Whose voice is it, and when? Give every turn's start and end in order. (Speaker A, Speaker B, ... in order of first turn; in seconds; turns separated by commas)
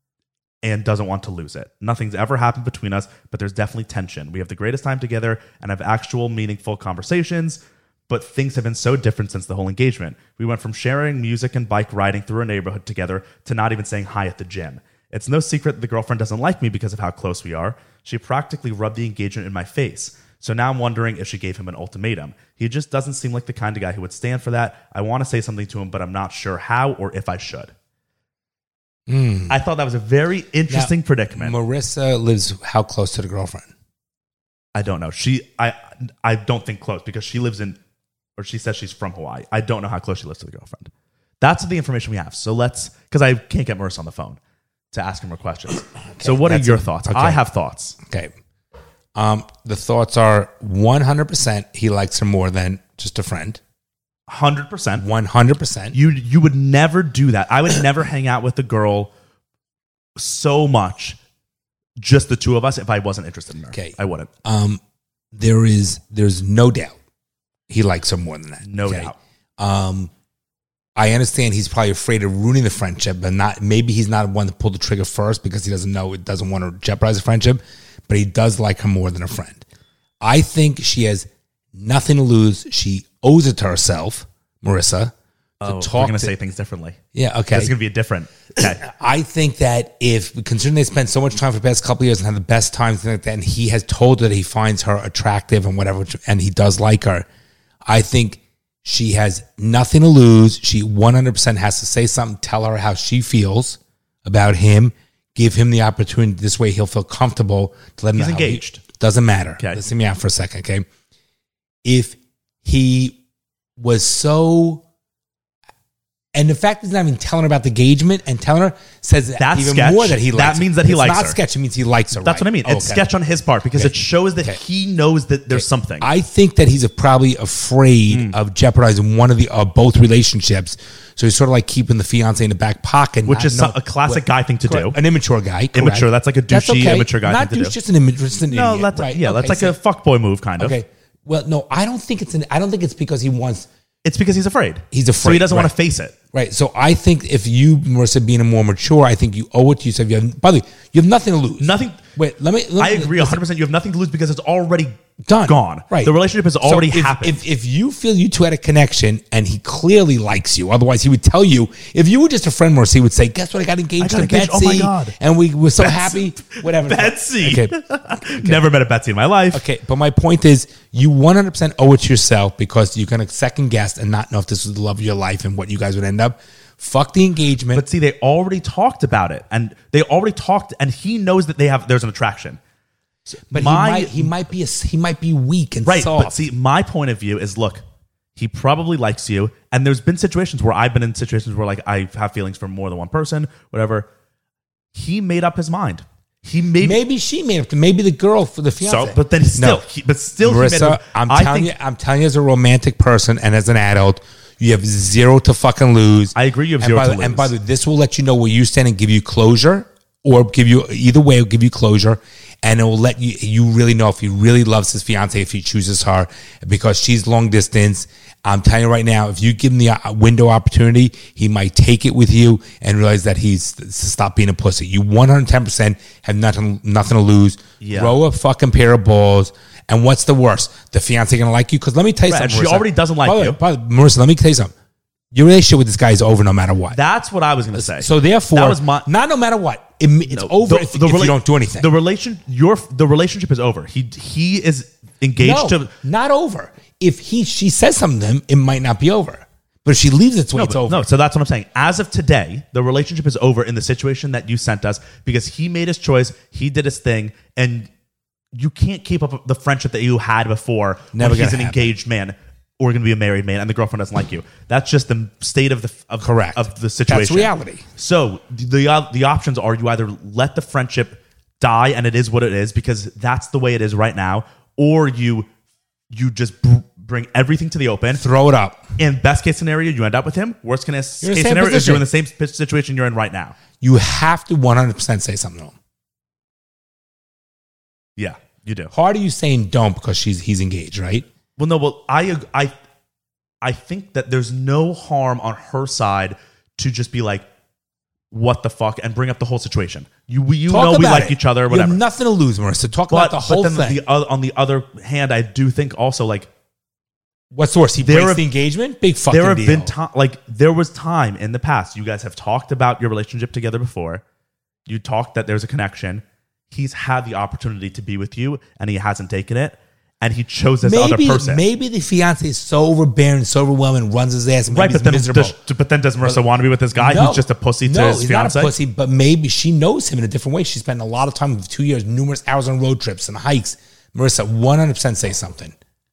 Speaker A: 0.6-27.7, Speaker B: 29.1-29.6, Speaker A: 29.5-31.6, Speaker B: 30.7-33.7, Speaker A: 34.7-37.8, Speaker A: 38.4-44.4, Speaker A: 44.9-48.0, Speaker B: 46.0-47.4, Speaker B: 48.0-48.3, Speaker B: 49.1-53.6, Speaker A: 54.3-55.0, Speaker B: 55.0-56.0, Speaker A: 55.9-59.1, Speaker A: 60.2-61.2, Speaker A: 62.0-64.3, Speaker B: 63.7-64.8, Speaker B: 65.3-67.0, Speaker B: 67.7-70.1, Speaker A: 68.6-69.2, Speaker B: 71.0-79.6, Speaker B: 80.2-86.3, Speaker A: 85.6-87.0, Speaker B: 87.1-87.7, Speaker A: 87.5-88.8, Speaker B: 88.6-97.3, Speaker B: 97.9-110.9, Speaker A: 108.1-108.8, Speaker B: 111.8-113.2, Speaker B: 113.8-114.8, Speaker B: 116.3-123.1, Speaker A: 119.4-121.4, Speaker A: 122.1-126.1, Speaker B: 123.7-124.6, Speaker B: 125.5-139.8, Speaker A: 128.1-128.3, Speaker A: 133.3-135.0, Speaker A: 135.7-137.8, Speaker A: 138.5-140.8, Speaker B: 140.6-143.7, Speaker A: 144.0-146.2, Speaker B: 144.9-145.7, Speaker B: 146.3-153.4, Speaker A: 151.6-152.0, Speaker A: 152.8-157.4, Speaker B: 155.2-168.6, Speaker A: 164.0-165.1, Speaker A: 165.8-169.6, Speaker B: 169.5-177.9, Speaker A: 177.7-182.6, Speaker A: 183.3-184.3, Speaker B: 183.5-186.3, Speaker A: 185.9-187.8, Speaker A: 188.4-194.1, Speaker A: 194.9-197.0, Speaker B: 196.8-199.9, Speaker A: 198.8-201.7, Speaker B: 200.4-234.7, Speaker A: 206.3-207.5, Speaker A: 227.8-228.2, Speaker A: 232.3-233.6, Speaker B: 235.3-237.0, Speaker A: 236.9-239.1, Speaker B: 237.7-241.9, Speaker A: 240.3-245.9, Speaker B: 245.4-251.1, Speaker A: 250.6-257.9, Speaker A: 258.5-275.5, Speaker B: 261.1-261.9, Speaker B: 266.2-267.8, Speaker A: 276.1-278.2, Speaker B: 278.1-278.9, Speaker A: 279.0-283.6, Speaker B: 281.2-282.1, Speaker B: 283.8-285.7, Speaker A: 288.2-288.9, Speaker B: 288.9-291.3, Speaker A: 291.6-292.8, Speaker A: 293.6-297.4, Speaker A: 298.3-302.0, Speaker B: 300.7-304.0, Speaker A: 303.1-306.5, Speaker B: 307.5-309.9, Speaker A: 308.0-308.4, Speaker A: 309.3-314.2, Speaker A: 314.9-321.6, Speaker B: 320.8-325.6, Speaker A: 324.7-328.7, Speaker B: 326.9-335.7